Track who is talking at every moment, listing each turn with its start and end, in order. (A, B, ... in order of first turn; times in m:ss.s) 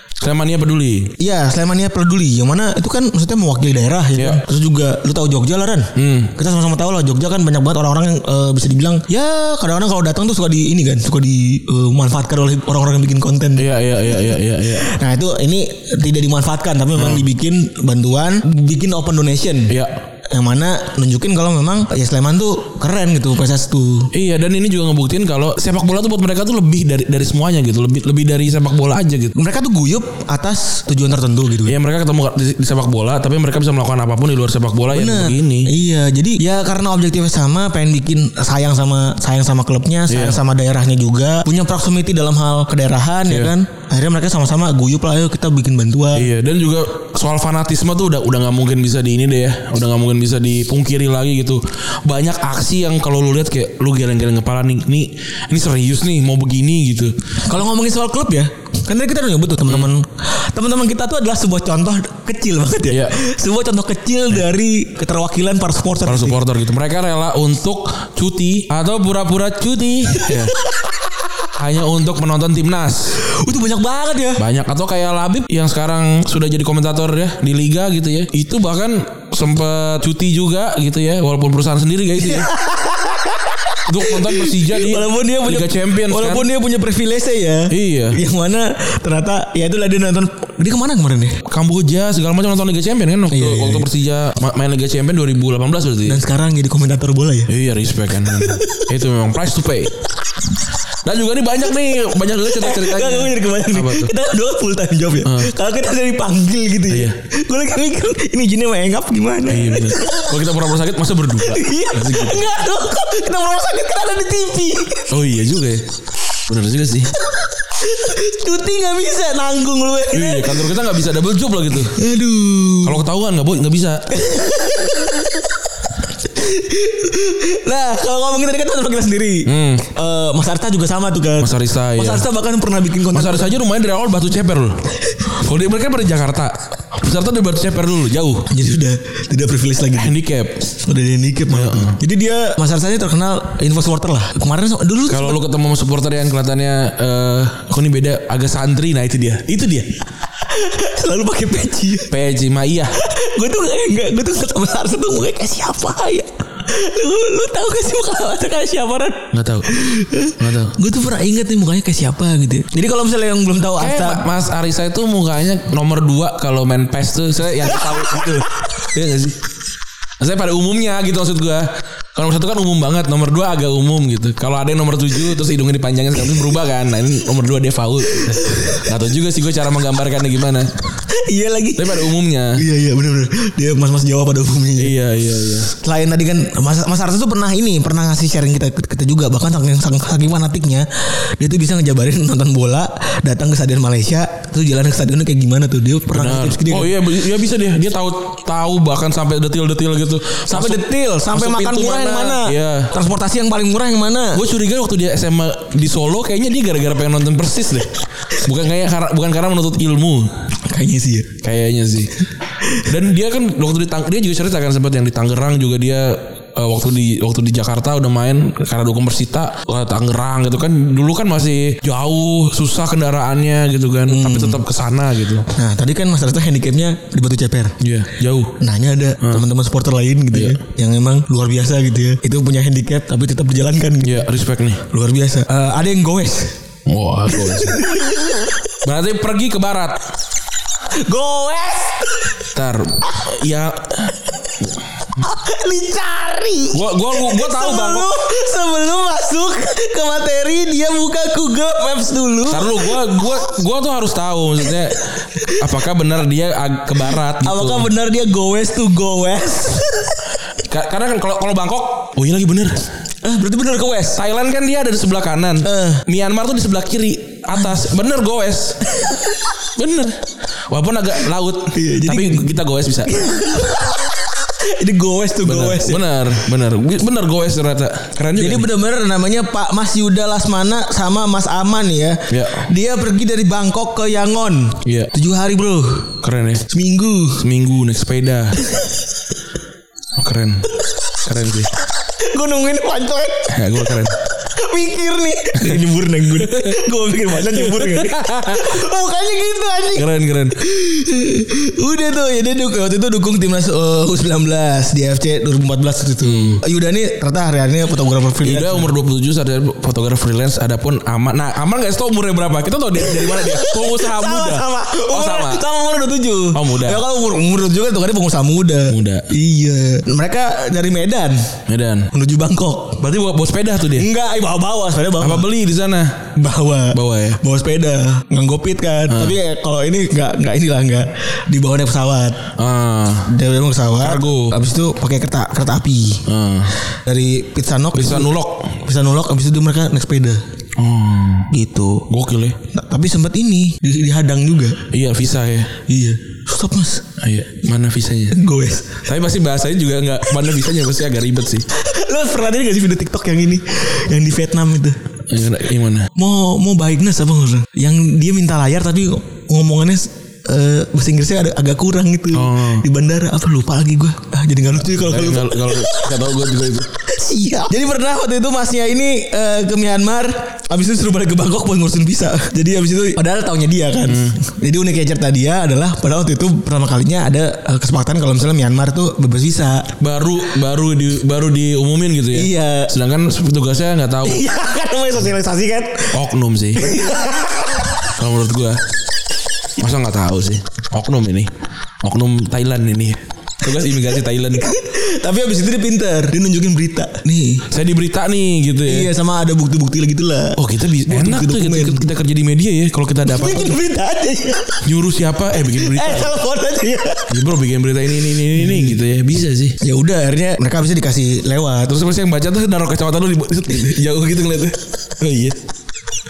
0:00.2-0:01.1 A
0:01.2-0:19.8 B
0:04.2-0:04.4 A
0:06.0-0:06.3 A
0:13.6-0:14.9 A
0:17.0-0:17.3 A
0:19.7-0:20.0 A
0:20.3-0:24.1 B
0:24.1-0:29.3 A
0:29.3-0:31.8 B
0:31.6-0:35.7 A
0:34.9-0:46.3 B
0:40.1-0:40.4 A
0:43.3-0:43.5 A
0:46.1-0:57.2 A
0:57.4-1:06.4 B
1:02.9-1:03.2 A
1:06.0-1:10.5 A
1:10.2-1:10.9 B
1:11.5-1:13.2 A
1:13.2-1:14.4 B
1:14.4-1:22.5 A
1:22.2-1:31.4 B
1:23.8-1:26.5 A
1:27.7-1:28.2 A
1:31.4-1:36.2 A
1:33.3-1:33.9 B
1:36.0-1:37.5 B
1:37.5-1:40.0 A
1:38.3-1:38.9 B
1:41.0-1:44.1 A
1:42.5-1:50.4 B
1:45.2-1:45.5 A
1:46.9-1:47.2 A
1:49.5-1:52.5 A
1:51.4-1:55.1 B
1:55.1-1:55.9 A
1:56.4-1:57.1 A
1:57.7-2:00.8 B
2:00.1-2:02.0 A
2:01.8-2:03.0 B
2:02.8-2:04.1 A
2:04.1-2:05.5 B
2:06.2-2:13.6 B
2:09.4-2:09.8 A
2:11.4-2:12.3 A
2:13.1-2:18.5 A
2:18.5-2:20.1 B
2:19.9-2:20.7 A
2:20.8-2:25.4 B
2:21.5-2:22.0 A
2:25.1-2:29.9 A
2:30.4-2:32.1 B
2:32.1-2:32.9 A
2:32.9-2:44.2 B
2:39.3-2:39.7 A
2:40.4-2:40.8 A
2:43.8-2:49.4 A
2:50.2-3:00.7 A
2:58.2-2:58.9 B
3:01.1-3:05.0 B
3:01.8-3:02.6 A
3:04.8-3:05.7 A
3:05.7-3:16.9 B
3:16.1-3:22.9 A
3:20.5-3:24.4 B
3:24.3-3:30.3 A
3:30.7-3:31.3 B
3:31.4-3:32.1 A
3:32.7-3:45.5 A
3:44.1-3:44.6 B
3:45.5-3:47.8 B
3:47.8-3:48.6 A
3:48.6-3:54.3 B
3:50.3-3:50.6 A
3:54.0-3:54.8 A
3:54.8-3:56.6 B
3:56.8-3:57.8 A
3:57.3-3:58.6 B
3:58.8-4:00.0 A
4:00.9-4:02.4 B
4:02.5-4:04.6 A
4:05.2-4:13.3 B
4:06.7-4:08.1 A
4:12.5-4:17.9 A
4:15.4-4:15.6 B
4:17.3-4:20.2 B
4:20.6-4:22.8 A
4:23.2-4:24.2 B
4:24.1-4:28.8 A
4:25.6-4:26.0 B
4:28.9-4:29.3 B
4:29.8-4:33.2 A
4:31.7-4:32.5 B
4:33.0-4:36.0 B
4:35.4-4:38.7 A
4:38.4-4:46.2 B
4:42.3-4:42.7 A
4:44.8-4:45.1 A
4:46.2-4:46.7 A
4:46.7-4:47.4 B
4:47.4-4:48.6 A
4:50.2-4:51.7 A
4:52.2-5:08.9 B
4:53.5-4:54.2 A
4:56.3-4:56.8 A
4:57.5-4:58.8 A
4:59.9-5:00.6 A
5:06.2-5:06.6 A
5:08.4-5:15.6 A
5:13.0-5:21.6 B
5:16.5-5:17.0 A
5:18.9-5:19.3 A
5:21.7-5:22.1 A
5:22.1-5:23.0 B
5:23.0-5:24.1 A
5:23.9-5:25.5 B
5:25.2-5:26.3 A
5:26.3-5:32.5 B
5:26.9-5:27.4 A
5:29.1-5:29.4 A
5:32.6-5:33.3 A
5:33.2-5:36.3 B
5:34.0-5:34.5 A
5:36.3-5:36.8 A
5:36.9-5:40.4 B
5:37.9-5:38.8 A
5:40.8-5:41.5 A
5:41.5-5:42.1 B
5:42.1-5:42.6 A
5:42.7-5:44.8 B
5:44.9-5:45.7 A
5:45.8-5:47.0 B
5:47.2-5:48.4 A
5:48.3-5:49.1 B
5:49.0-5:51.6 A
5:51.7-5:55.0 B
5:55.3-5:56.1 A
5:56.1-6:06.2 B
6:02.3-6:02.8 A
6:04.9-6:06.9 A
6:07.0-6:19.9 B
6:14.0-6:14.4 A
6:20.0-6:24.4 A
6:22.3-6:22.9 B
6:24.2-6:26.2 B
6:26.1-6:26.9 A
6:26.8-6:28.0 B
6:28.1-6:28.8 A
6:29.8-6:31.5 A
6:32.0-6:34.7 A
6:34.5-6:37.7 B
6:37.7-6:39.1 A
6:38.9-6:42.0 B
6:40.6-6:43.8 A
6:43.2-6:44.8 B
6:44.8-6:46.4 A
6:45.6-6:47.4 B
6:47.3-6:49.8 A
6:48.6-6:48.9 B
6:49.8-6:52.0 B
6:51.8-6:55.6 A